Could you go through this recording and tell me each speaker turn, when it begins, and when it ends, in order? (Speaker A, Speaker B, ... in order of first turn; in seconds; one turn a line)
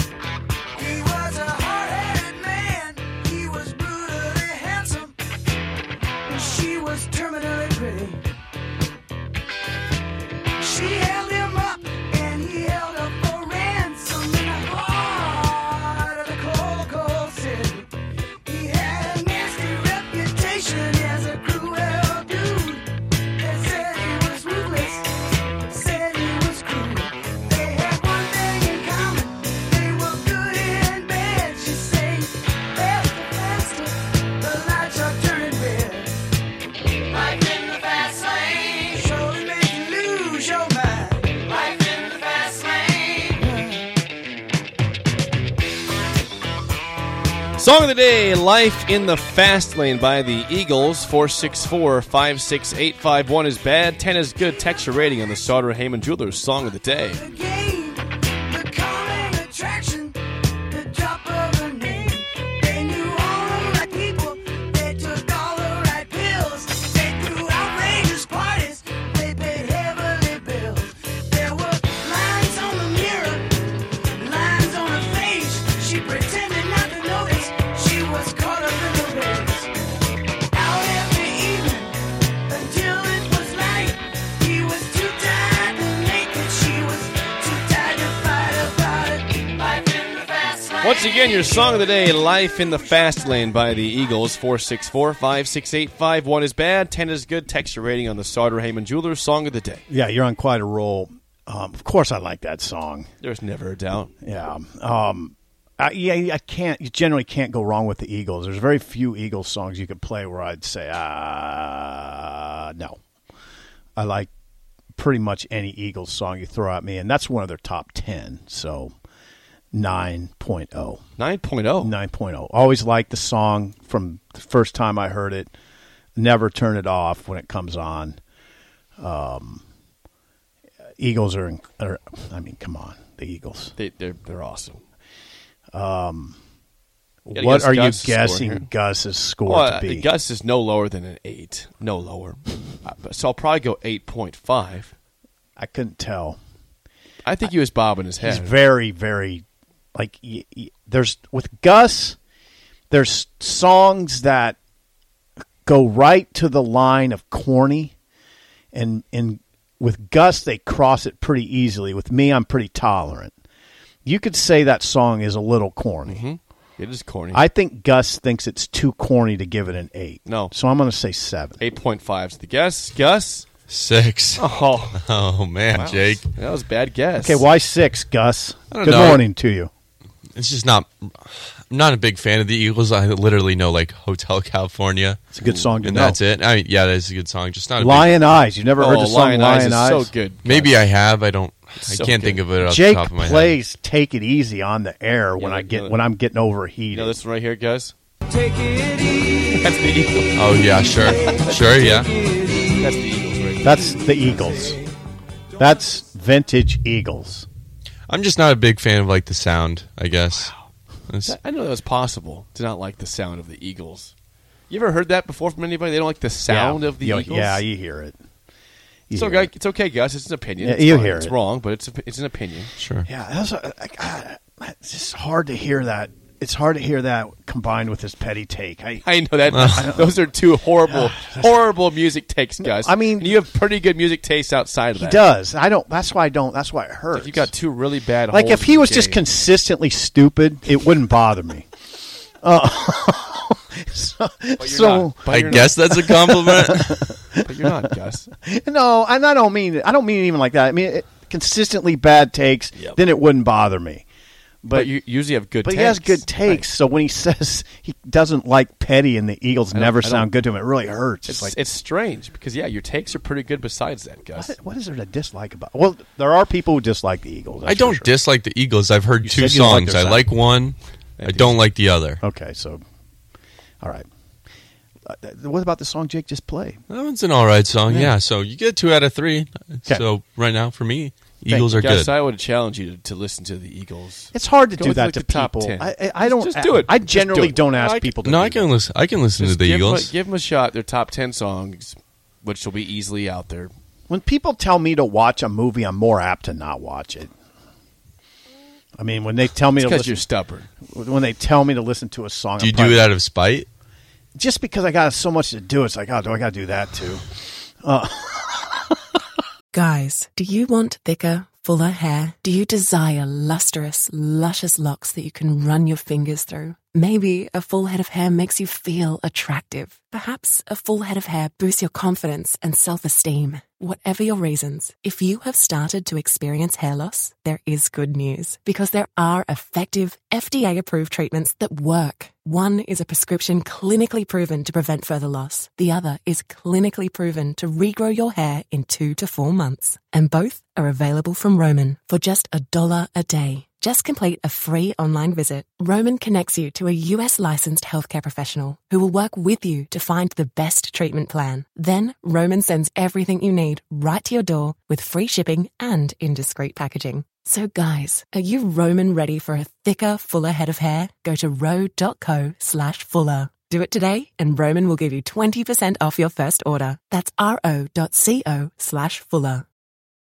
Speaker A: 0.8-5.2
Speaker A: 6.3-8.2
Speaker A: 10.6-17.9
Speaker A: 18.5-36.2
Speaker A: 37.1-43.5
Speaker B: 47.6-57.2
Speaker A: 57.2-79.7
Speaker A: 80.5-90.0
Speaker B: 90.8-99.8
Speaker C: 99.9-103.1
Speaker B: 103.2-104.1
Speaker C: 104.2-113.0
Speaker C: 114.0-114.3
Speaker C: 115.0-119.0
Speaker C: 119.7-121.0
Speaker B: 121.2-121.9
Speaker C: 121.8-125.5
Speaker C: 126.2-128.2
Speaker C: 129.0-129.6
Speaker C: 131.0-133.7
Speaker B: 133.8-134.8
Speaker C: 135.7-136.4
Speaker C: 137.3-140.1
Speaker B: 137.3-138.7
Speaker B: 139.5-144.9
Speaker C: 145.6-146.4
Speaker B: 147.2-148.6
Speaker C: 148.2-152.2
Speaker C: 152.9-154.6
Speaker C: 155.7-157.9
Speaker C: 158.7-163.3
Speaker C: 164.1-166.2
Speaker B: 166.1-167.5
Speaker C: 167.3-171.6
Speaker B: 170.3-170.5
Speaker B: 171.6-173.5
Speaker D: 173.7-176.3
Speaker B: 174.4-175.0
Speaker B: 175.7-177.5
Speaker C: 177.2-179.7
Speaker B: 178.7-179.2
Speaker D: 178.8-179.2
Speaker D: 180.3-185.3
Speaker C: 185.3-186.2
Speaker D: 185.8-188.1
Speaker C: 187.8-190.1
Speaker B: 188.8-190.8
Speaker D: 190.4-193.6
Speaker B: 191.8-192.5
Speaker C: 192.7-197.2
Speaker B: 195.4-196.0
Speaker B: 196.9-197.9
Speaker B: 199.4-200.6
Speaker D: 200.3-202.2
Speaker B: 201.2-202.0
Speaker B: 202.6-204.4
Speaker C: 203.6-204.8
Speaker C: 205.6-207.5
Speaker D: 208.1-210.5
Speaker D: 211.1-211.4
Speaker B: 211.2-214.1
Speaker B: 214.7-217.7
Speaker C: 216.5-218.2
Speaker C: 219.1-219.5
Speaker B: 219.1-222.7
Speaker C: 220.6-221.3
Speaker D: 222.8-223.1
Speaker C: 223.1-230.2
Speaker B: 229.0-235.3
Speaker D: 229.5-229.9
Speaker C: 230.9-231.5
Speaker C: 232.6-233.3
Speaker C: 234.9-237.5
Speaker B: 237.1-239.2
Speaker C: 238.3-241.7
Speaker C: 242.4-245.2
Speaker B: 244.6-245.9
Speaker D: 245.3-247.2
Speaker C: 245.9-247.9
Speaker B: 247.4-248.3
Speaker C: 248.4-254.1
Speaker C: 254.6-254.9
Speaker B: 254.7-256.7
Speaker C: 255.6-261.6
Speaker B: 259.7-260.3
Speaker B: 261.3-264.6
Speaker C: 264.4-268.1
Speaker D: 267.7-272.2
Speaker C: 269.2-270.3
Speaker B: 271.2-271.6
Speaker C: 272.2-272.8
Speaker C: 275.1-276.8
Speaker D: 276.9-282.1
Speaker C: 277.9-278.1
Speaker C: 281.5-281.7
Speaker B: 281.8-287.6
Speaker C: 284.3-288.8
Speaker D: 287.7-290.1
Speaker B: 289.4-293.7
Speaker C: 294.1-297.3
Speaker C: 299.0-300.2
Speaker B: 299.8-300.7
Speaker C: 300.9-303.2
Speaker D: 302.6-303.7
Speaker C: 304.4-309.0
Speaker E: 309.7-369.6